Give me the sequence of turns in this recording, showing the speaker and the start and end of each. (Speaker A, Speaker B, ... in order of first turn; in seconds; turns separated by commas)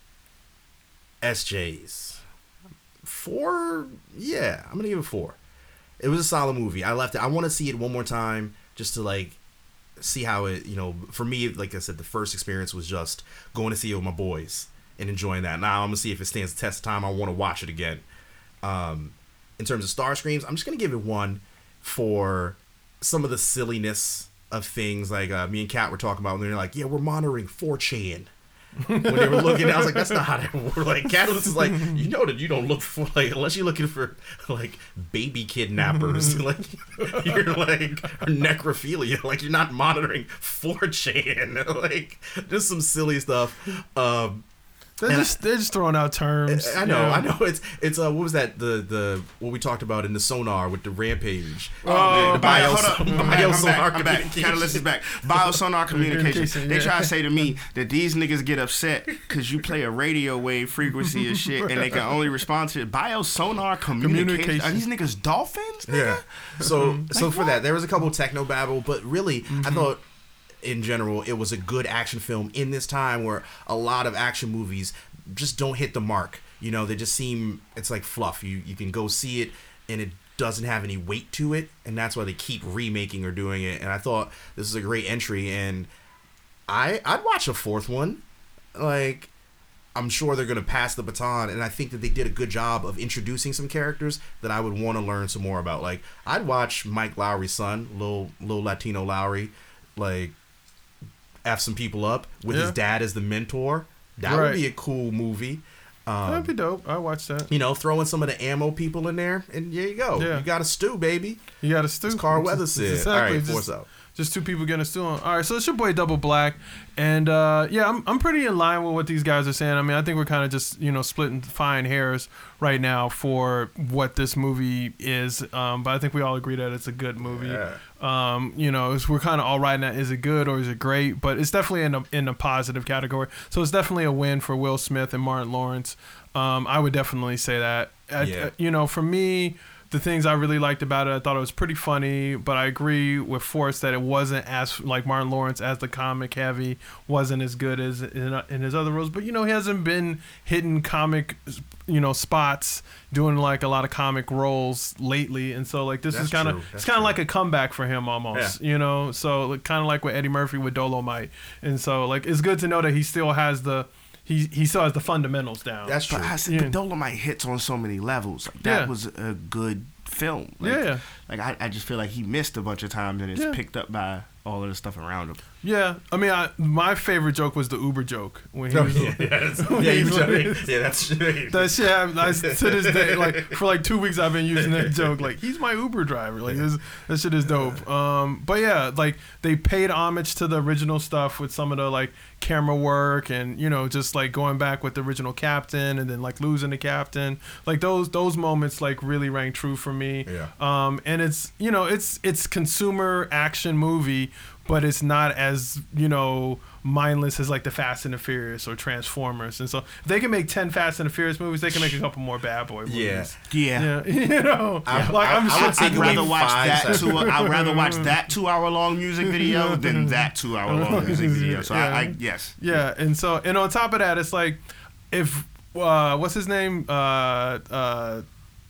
Speaker A: 1.2-2.2, Speaker A: 3.0-5.4, Speaker A: 6.0-9.4, Speaker A: 10.0-18.1, Speaker A: 18.6-28.3, Speaker B: 28.8-30.2, Speaker A: 28.9-44.5, Speaker B: 31.5-32.0, Speaker B: 35.9-36.4, Speaker B: 45.0-47.3, Speaker A: 45.0-45.4, Speaker A: 46.5-55.6, Speaker B: 51.8-53.5, Speaker C: 51.9-66.2, Speaker B: 55.9-57.1, Speaker B: 61.5-62.0, Speaker B: 64.0-64.8, Speaker A: 65.9-70.0, Speaker B: 66.6-67.1, Speaker C: 67.1-67.6, Speaker B: 69.5-69.9, Speaker A: 70.6-85.9, Speaker A: 86.7-88.2, Speaker A: 88.8-89.3, Speaker A: 90.0-100.3, Speaker A: 101.5-106.5, Speaker B: 102.5-102.8, Speaker B: 104.3-104.6, Speaker B: 106.3-107.5, Speaker A: 107.5-111.4, Speaker B: 110.2-110.5, Speaker B: 111.6-166.8, Speaker A: 112.0-113.9, Speaker A: 127.2-127.8, Speaker A: 138.2-138.5, Speaker A: 156.1-157.2, Speaker A: 165.9-166.4, Speaker C: 166.1-175.4, Speaker B: 168.6-168.9, Speaker B: 170.6-171.0, Speaker B: 175.6-180.7, Speaker A: 178.7-183.6, Speaker B: 181.5-218.1, Speaker A: 184.6-185.2, Speaker A: 200.3-200.5, Speaker A: 212.9-213.3, Speaker C: 213.5-213.9, Speaker A: 214.9-217.3, Speaker C: 214.9-222.6, Speaker B: 219.3-220.1, Speaker B: 220.7-228.3